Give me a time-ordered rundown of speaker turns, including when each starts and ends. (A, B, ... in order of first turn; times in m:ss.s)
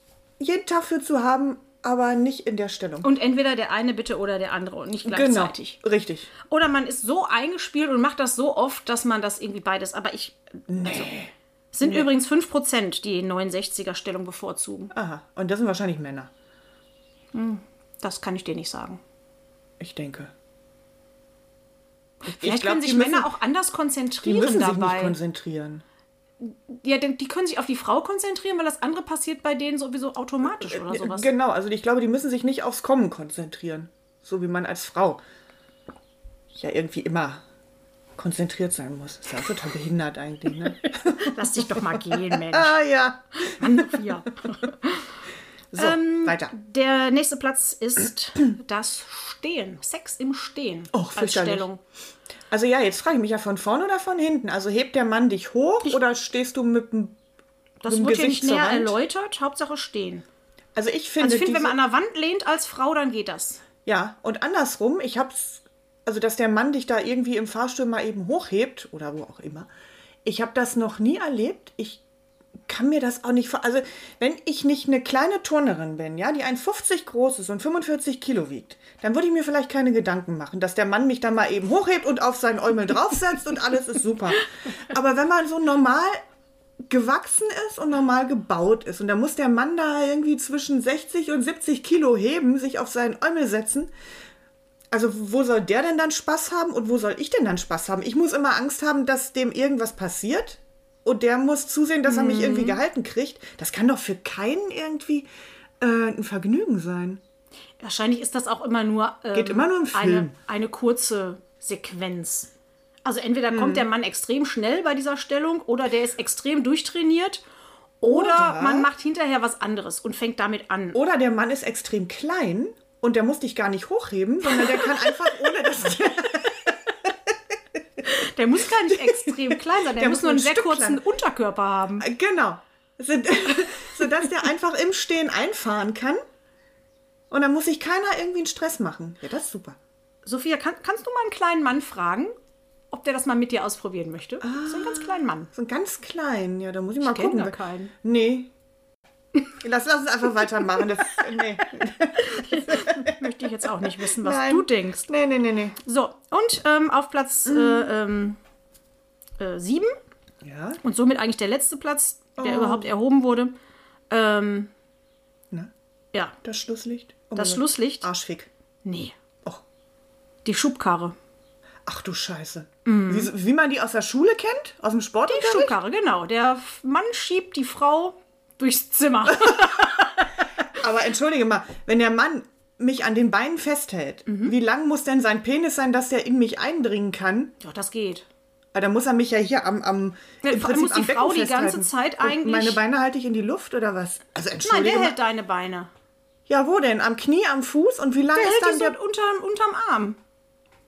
0:00.4-0:03.1 A
0:03.0-0:05.8 B
0:05.0-0:06.3 A
0:06.4-0:11.1 B
0:10.7-0:12.1 A
0:11.7-0:14.9 B
0:14.9-0:16.3 A
0:17.3-0:19.0 B
0:19.8-0:20.3 A
0:22.2-0:25.2 B
0:22.2-0:23.3 A
0:24.2-0:25.8 A
0:26.4-0:31.3 B
0:30.6-0:35.2 A
0:36.5-0:37.4 A
0:38.2-0:44.1 A
0:41.1-0:42.8 B
0:43.4-0:45.1 B
0:45.7-0:46.5 A
0:45.8-0:51.8 B
0:50.9-0:51.7 A
0:52.5-0:57.2 A
0:57.8-1:00.2 B
0:57.9-0:59.0 A
1:00.7-1:01.8 A
1:01.2-1:03.6 B
1:03.8-1:09.7 A
1:10.2-1:12.0 A
1:12.6-1:26.2 A
1:26.8-1:33.9 A
1:34.9-1:45.3 A
1:42.0-1:42.8 B
1:45.8-1:47.2 A
1:47.8-1:52.5 B
1:49.3-1:50.3 A
1:53.0-1:57.4 B
1:53.5-1:53.8 A
1:58.0-2:01.0 B
1:58.0-1:58.9 A
2:00.9-2:07.1 A
2:04.5-2:05.1 B
2:08.0-2:12.0 B
2:08.9-2:11.0 A
2:12.0-2:16.2 A
2:17.3-2:19.8 A
2:20.2-2:22.3 B
2:22.9-2:25.5 B
2:24.4-2:28.5 A
2:27.0-2:27.9 B
2:29.6-2:33.2 A
2:32.3-2:35.1 B
2:34.0-2:35.8 A
2:35.8-2:38.4 B
2:37.4-2:37.9 A
2:39.4-2:39.9 B
2:40.4-2:40.8 A
2:40.8-2:43.5 B
2:42.4-2:42.9 A
2:44.1-2:44.7 B
2:46.4-2:48.5 A
2:47.4-2:48.1 B
2:48.8-2:49.2 B
2:50.4-2:51.1 B
2:51.8-2:55.8 A
2:52.8-2:53.3 B
2:55.3-3:00.7 B
3:00.7-3:07.5 A
3:04.3-3:04.5 B
3:07.6-3:08.2 B
3:08.7-3:15.2 A
3:10.4-3:12.8 B
3:14.6-3:15.9 B
3:16.5-3:19.0 A
3:18.3-3:20.2 B